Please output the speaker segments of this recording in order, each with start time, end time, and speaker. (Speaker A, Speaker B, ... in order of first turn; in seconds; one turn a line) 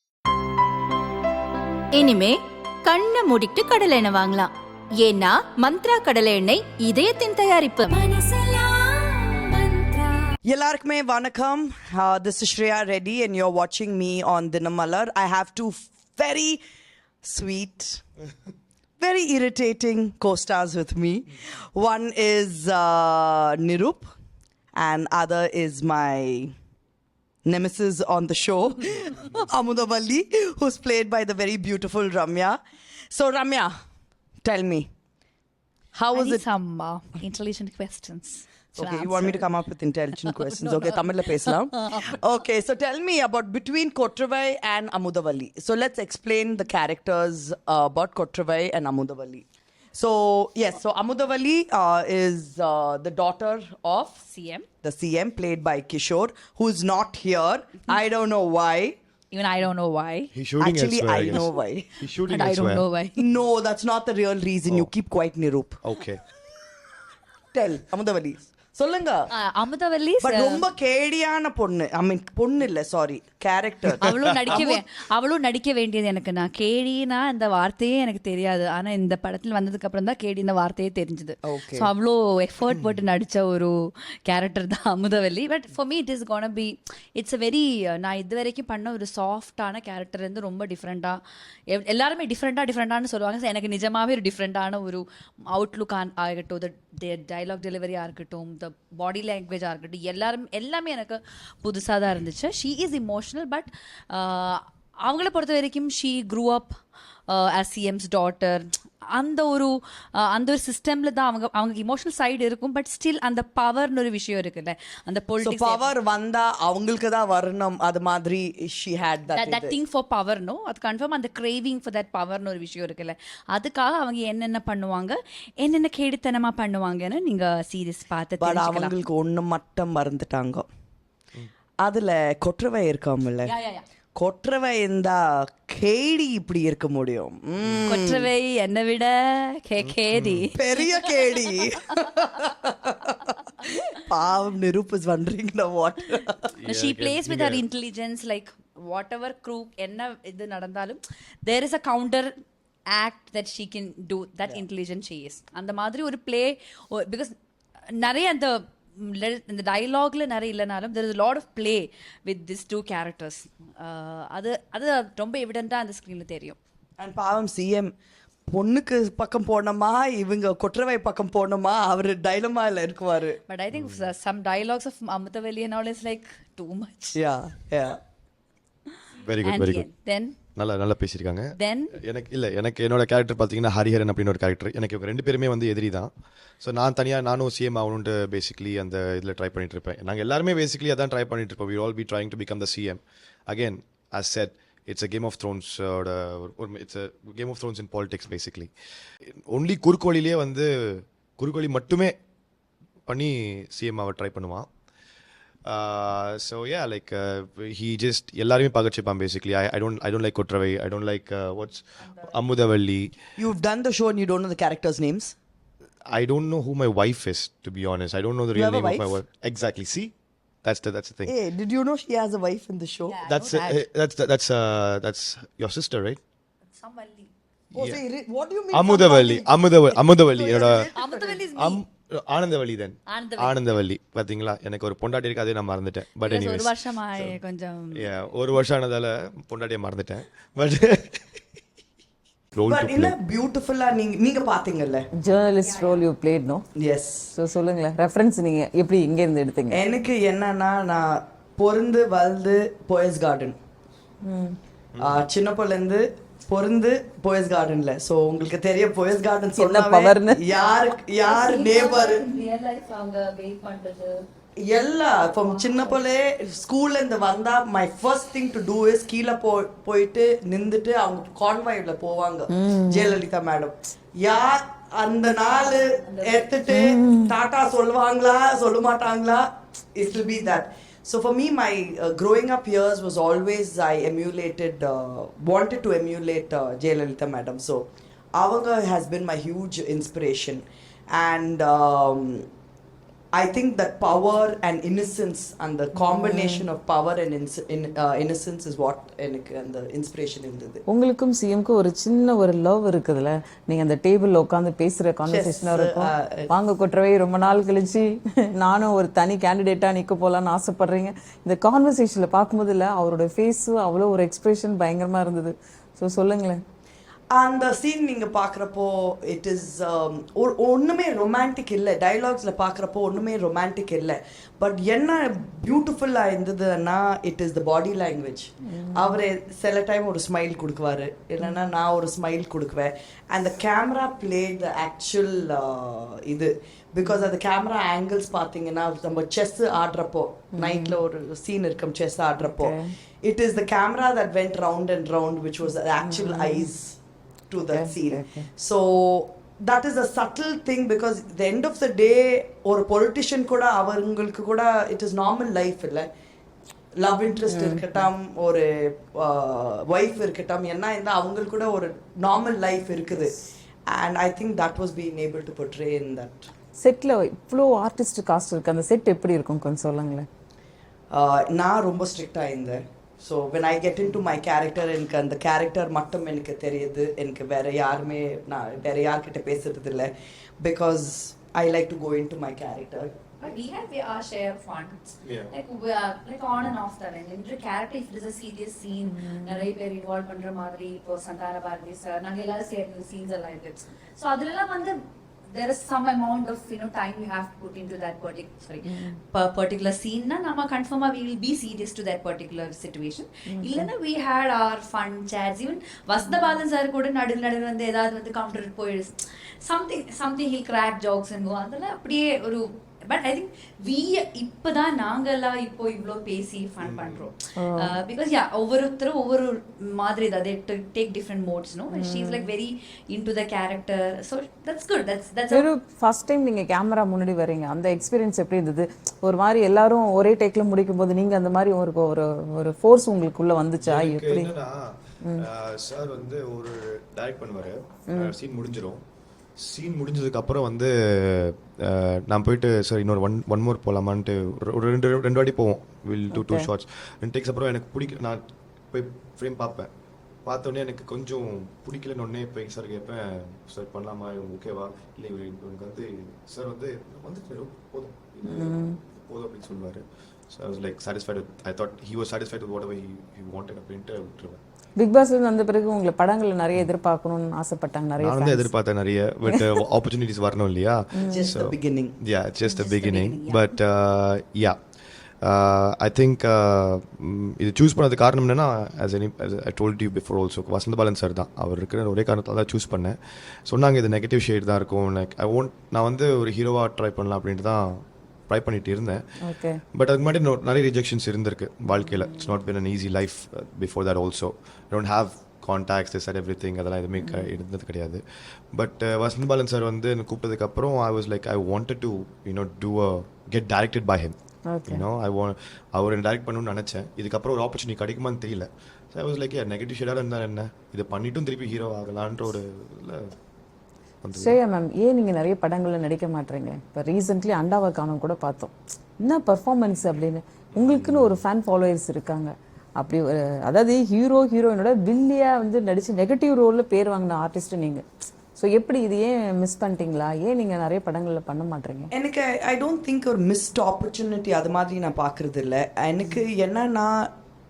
Speaker A: 1.9-4.5
Speaker B: 3.7-4.4
Speaker A: 5.0-8.0
Speaker B: 7.8-10.3
Speaker C: 10.5-16.6
Speaker C: 17.2-18.0
Speaker C: 19.0-24.1
Speaker C: 24.8-26.5
Speaker C: 27.4-32.6
Speaker C: 33.1-33.7
Speaker C: 34.4-34.9
Speaker C: 35.9-36.4
Speaker B: 36.1-39.4
Speaker C: 38.8-54.2
Speaker B: 40.2-42.1
Speaker B: 54.2-54.7
Speaker C: 54.8-59.0
Speaker B: 59.3-60.3
Speaker D: 60.3-62.9
Speaker C: 60.6-61.9
Speaker B: 62.3-63.2
Speaker C: 63.2-65.8
Speaker D: 65.8-66.2
Speaker C: 67.5-69.3
Speaker B: 69.3-70.6
Speaker C: 70.2-74.8
Speaker B: 74.0-106.8
Speaker D: 74.0-74.6
Speaker C: 81.4-81.9
Speaker B: 107.3-115.9
Speaker C: 115.4-119.8
Speaker B: 119.3-128.9
Speaker C: 128.4-130.7
Speaker C: 131.8-133.5
Speaker B: 133.4-133.8
Speaker C: 134.2-138.3
Speaker B: 137.9-141.4
Speaker D: 139.8-140.5
Speaker C: 140.5-146.5
Speaker D: 146.6-147.6
Speaker B: 146.7-152.3
Speaker B: 152.9-157.3
Speaker B: 158.0-166.6
Speaker C: 167.0-167.9
Speaker C: 168.5-173.4
Speaker B: 173.5-177.2
Speaker D: 173.7-174.0
Speaker C: 177.2-178.0
Speaker D: 179.2-179.9
Speaker B: 179.4-180.3
Speaker D: 180.6-198.7
Speaker B: 181.6-181.9
Speaker D: 199.5-202.2
Speaker D: 203.1-204.7
Speaker D: 205.7-213.2
Speaker B: 212.0-212.4
Speaker C: 213.4-215.3
Speaker D: 216.1-220.1
Speaker C: 218.5-219.2
Speaker D: 220.6-221.3
Speaker C: 221.2-223.2
Speaker B: 223.1-223.8
Speaker D: 223.2-226.2
Speaker B: 226.8-227.3
Speaker D: 227.8-228.0
Speaker C: 227.8-231.4
Speaker D: 228.7-230.9
Speaker B: 230.3-231.8
Speaker D: 231.5-237.4
Speaker B: 233.1-233.6
Speaker B: 236.2-238.0
Speaker D: 237.9-241.4
Speaker D: 242.5-243.2
Speaker C: 242.7-245.1
Speaker E: 245.2-246.6
Speaker B: 245.6-246.1
Speaker C: 246.8-247.3
Speaker E: 247.3-249.8
Speaker C: 249.7-253.6
Speaker E: 254.2-254.6
Speaker D: 254.9-255.3
Speaker C: 255.0-262.2
Speaker E: 259.6-260.4
Speaker B: 261.2-264.2
Speaker C: 264.6-292.5
Speaker B: 265.1-266.0
Speaker E: 272.5-273.2
Speaker B: 275.9-276.5
Speaker E: 276.7-277.4
Speaker C: 293.4-300.8
Speaker E: 296.0-296.6
Speaker E: 300.9-308.1
Speaker C: 305.3-306.5
Speaker E: 308.6-316.6
Speaker C: 317.3-347.0
Speaker E: 328.8-329.1
Speaker E: 340.6-341.0
Speaker E: 342.4-342.9
Speaker E: 346.0-346.7
Speaker C: 347.5-356.1
Speaker E: 347.7-348.5
Speaker C: 357.0-363.4
Speaker E: 357.5-358.1
Speaker C: 363.9-366.5
Speaker E: 366.8-370.3
Speaker C: 371.1-383.1
Speaker B: 383.4-395.0
Speaker D: 385.2-385.5
Speaker E: 389.1-389.7
Speaker B: 395.5-425.7
Speaker E: 398.9-399.2
Speaker E: 403.5-403.9
Speaker D: 416.8-417.3
Speaker E: 417.6-417.9
Speaker E: 421.9-422.5
Speaker E: 425.5-434.6
Speaker D: 433.8-439.0
Speaker E: 438.1-438.3
Speaker D: 439.6-449.9
Speaker E: 446.3-446.7
Speaker D: 450.4-464.6
Speaker E: 458.5-459.0
Speaker E: 465.0-468.7
Speaker D: 468.2-474.8
Speaker E: 471.2-471.6
Speaker C: 471.2-472.2
Speaker B: 472.6-473.8
Speaker D: 475.4-489.2
Speaker E: 489.4-489.8
Speaker D: 489.9-498.2
Speaker E: 492.1-492.5
Speaker E: 497.2-497.5
Speaker D: 498.7-504.3
Speaker E: 504.7-505.1
Speaker D: 504.9-513.3
Speaker D: 514.2-514.6
Speaker E: 514.4-528.0
Speaker D: 520.8-521.4
Speaker E: 528.5-532.1
Speaker C: 532.1-537.3